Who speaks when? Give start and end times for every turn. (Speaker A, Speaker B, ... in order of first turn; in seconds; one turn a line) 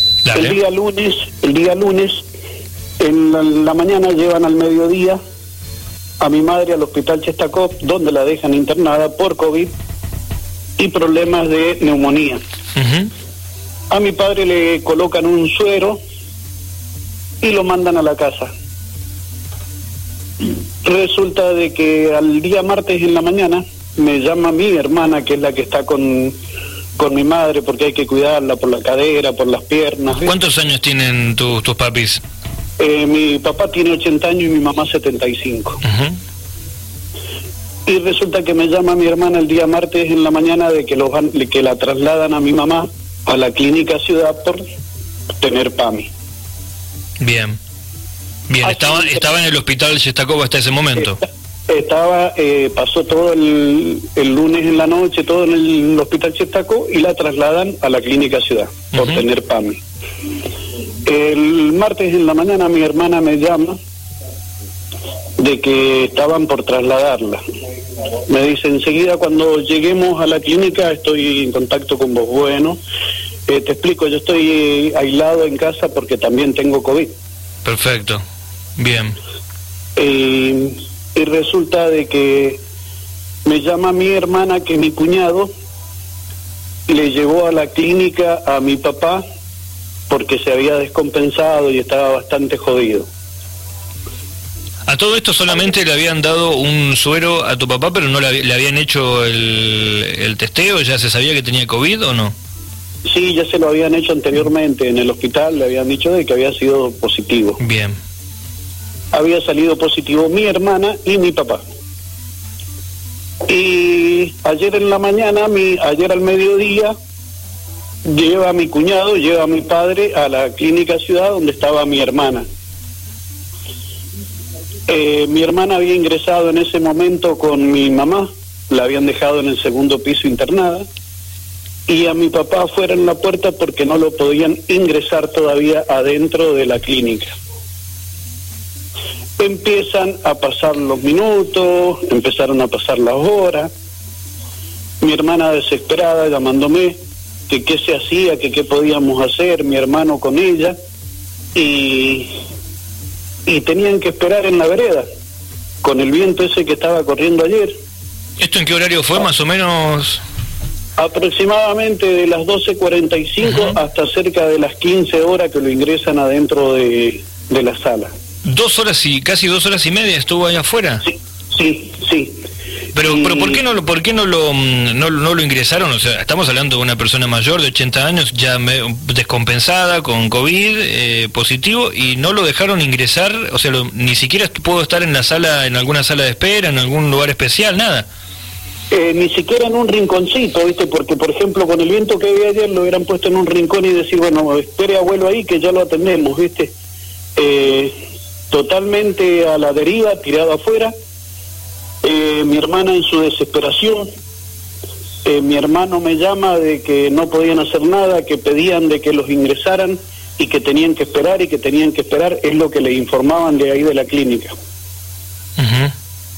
Speaker A: 0.2-0.6
Speaker B: 0.3-2.2
Speaker B: 3.0-5.2
Speaker B: 6.2-9.7
Speaker B: 10.8-12.4
Speaker A: 12.8-13.1
Speaker B: 13.9-16.0
Speaker B: 17.4-18.5
Speaker B: 20.8-26.3
Speaker B: 27.0-30.3
Speaker A: 30.2-32.2
Speaker B: 32.8-35.8
Speaker A: 35.8-36.2
Speaker B: 37.9-44.6
Speaker B: 45.4-46.1
Speaker A: 47.2-47.6
Speaker A: 48.5-51.2
Speaker B: 48.6-49.2
Speaker B: 51.7-59.8
Speaker A: 58.9-59.2
Speaker B: 61.0-63.8
Speaker B: 65.4-67.4
Speaker B: 68.3-72.8
Speaker B: 73.5-77.1
Speaker A: 77.6-78.2
Speaker A: 78.8-79.2
Speaker B: 80.0-82.6
Speaker B: 83.5-85.5
Speaker B: 86.9-89.2
Speaker B: 90.1-93.1
Speaker A: 94.9-102.3
Speaker B: 103.1-107.6
Speaker A: 107.6-108.0
Speaker B: 109.1-111.6
Speaker B: 113.4-116.9
Speaker B: 118.0-122.5
Speaker B: 124.9-130.8
Speaker B: 131.9-137.3
Speaker B: 139.4-143.7
Speaker B: 145.0-147.0
Speaker B: 147.5-150.7
Speaker B: 151.5-152.3
Speaker B: 153.4-155.1
Speaker B: 155.8-157.7
Speaker A: 158.4-160.2
Speaker B: 161.0-168.1
Speaker A: 163.4-163.8
Speaker A: 168.4-171.0
Speaker B: 171.1-172.4
Speaker A: 172.9-188.1
Speaker B: 173.0-173.6
Speaker B: 188.9-196.7
Speaker B: 197.3-197.9
Speaker B: 198.5-200.9
Speaker B: 202.0-204.1
Speaker B: 205.2-214.5
Speaker A: 215.6-215.9